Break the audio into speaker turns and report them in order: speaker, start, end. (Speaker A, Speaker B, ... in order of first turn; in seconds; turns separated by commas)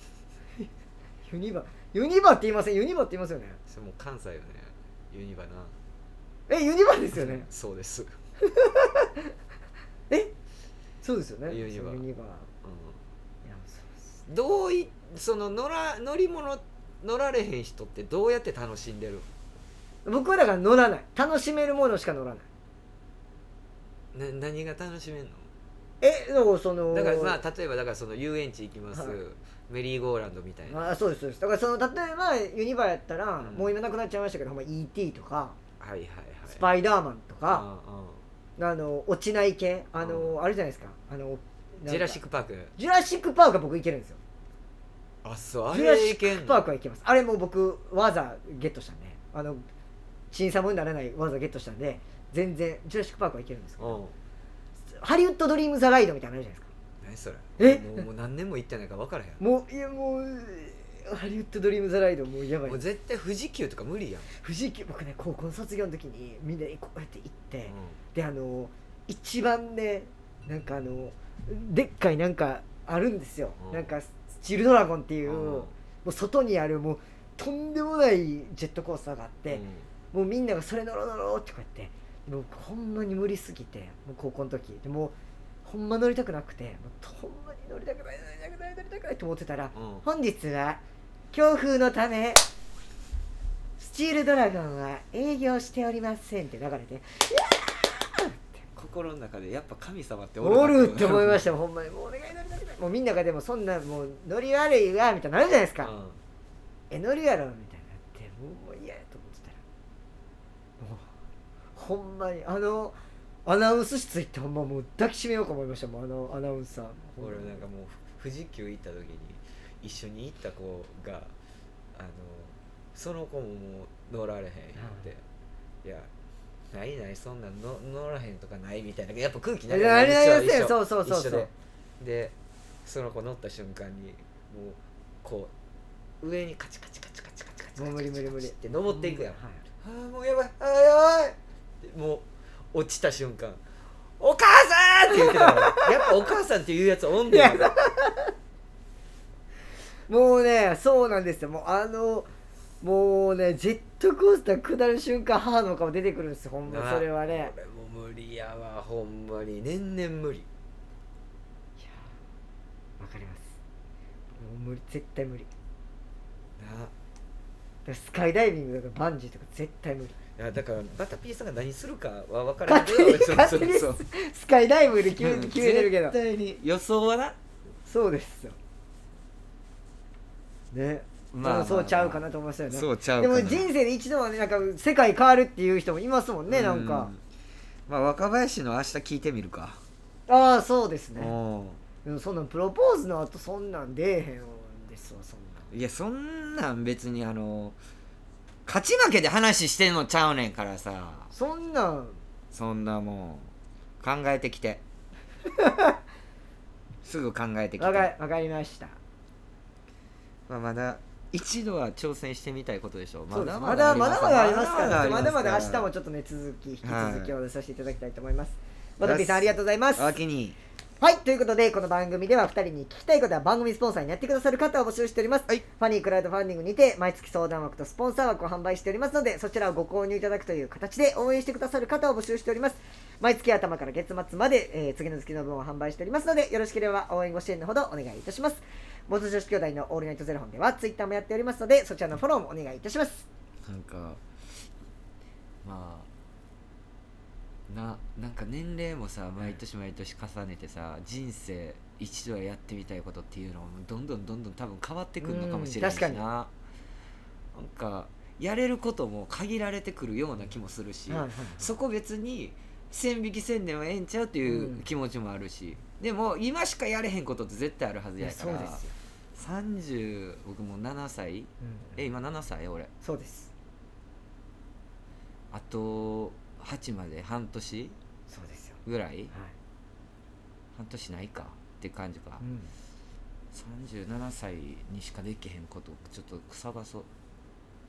Speaker A: 1.3-3.6, Speaker B: 3.7-5.8, Speaker A: 6.5-7.5, Speaker B: 7.1-8.1, Speaker A: 8.4-9.3, Speaker A: 11.0-12.5, Speaker B: 11.5-12.0, Speaker B: 12.6-13.0, Speaker A: 13.4-14.2, Speaker B: 14.3-19.3, Speaker A: 20.1-22.5, Speaker B: 24.1-25.5, Speaker A: 26.0-27.4, Speaker B: 26.9-30.8, Speaker A: 28.9-29.2, Speaker A: 30.7-35.6, Speaker B: 33.4-33.7, Speaker B: 35.8-36.6, Speaker A: 36.5-37.7, Speaker B: 37.5-38.2, Speaker A: 38.6-42.2, Speaker B: 40.0-40.4, Speaker B: 41.9-42.7, Speaker A: 42.8-44.2, Speaker B: 45.2-46.6, Speaker A: 45.7-49.6, Speaker A: 50.3-54.0, Speaker B: 53.8-54.1, Speaker A: 55.0-56.7, Speaker B: 57.0-59.4, Speaker A: 57.6-58.0, Speaker A: 59.4-62.8, Speaker B: 62.6-64.3, Speaker A: 64.3-90.8, Speaker B: 67.7-68.0, Speaker B: 73.6-73.9, Speaker B: 75.2-75.7, Speaker B: 79.5-79.9, Speaker B: 89.7-90.0, Speaker A: 91.3-92.4, Speaker A: 93.8-98.7, Speaker B: 98.8-101.5, Speaker A: 100.4-105.9, Speaker B: 105.8-106.2, Speaker A: 106.9-109.6, Speaker A: 110.8-111.1, Speaker A: 111.8-117.7, Speaker B: 117.2-121.3, Speaker B: 122.0-125.2, Speaker A: 124.8-125.1, Speaker B: 125.8-126.1, Speaker B: 126.7-135.5, Speaker A: 129.7-131.5, Speaker B: 136.2-143.6, Speaker A: 137.8-139.6, Speaker B: 144.2-147.7, Speaker A: 145.2-145.9, Speaker A: 147.3-148.3, Speaker A: 150.1-152.3, Speaker A: 152.8-157.5, Speaker B: 156.7-160.5, Speaker A: 161.8-162.1, Speaker A: 163.0-163.6, Speaker A: 164.4-165.5, Speaker B: 166.6-166.9, Speaker A: 167.8-170.1, Speaker B: 170.4-174.0, Speaker A: 172.7-176.2, Speaker B: 175.1-177.4, Speaker A: 177.9-178.6, Speaker A: 180.7-187.1, Speaker B: 181.3-183.7, Speaker B: 186.5-187.2, Speaker B: 187.9-189.8, Speaker A: 190.3-191.3, Speaker B: 191.2-191.8, Speaker A: 192.1-195.7, Speaker B: 195.7-197.8, Speaker B: 198.7-201.3, Speaker A: 201.3-202.2, Speaker B: 202.5-204.8, Speaker A: 205.6-205.9, Speaker B: 207.0-208.1, Speaker A: 207.8-209.0, Speaker B: 210.5-215.9, Speaker A: 213.3-220.1, Speaker B: 216.8-217.3, Speaker B: 219.0-220.6, Speaker A: 221.0-243.2, Speaker B: 243.7-244.2, Speaker B: 245.6-246.1, Speaker B: 247.7-256.5, Speaker A: 255.2-256.2, Speaker B: 257.5-268.8, Speaker A: 261.1-261.7, Speaker A: 264.4-264.9, Speaker A: 268.2-268.9, Speaker B: 269.4-272.9, Speaker A: 271.6-272.0, Speaker A: 273.0-273.5, Speaker B: 275.5-278.0, Speaker A: 278.3-279.5, Speaker B: 278.9-279.3, Speaker B: 280.8-282.4, Speaker A: 282.4-282.7, Speaker B: 283.5-287.1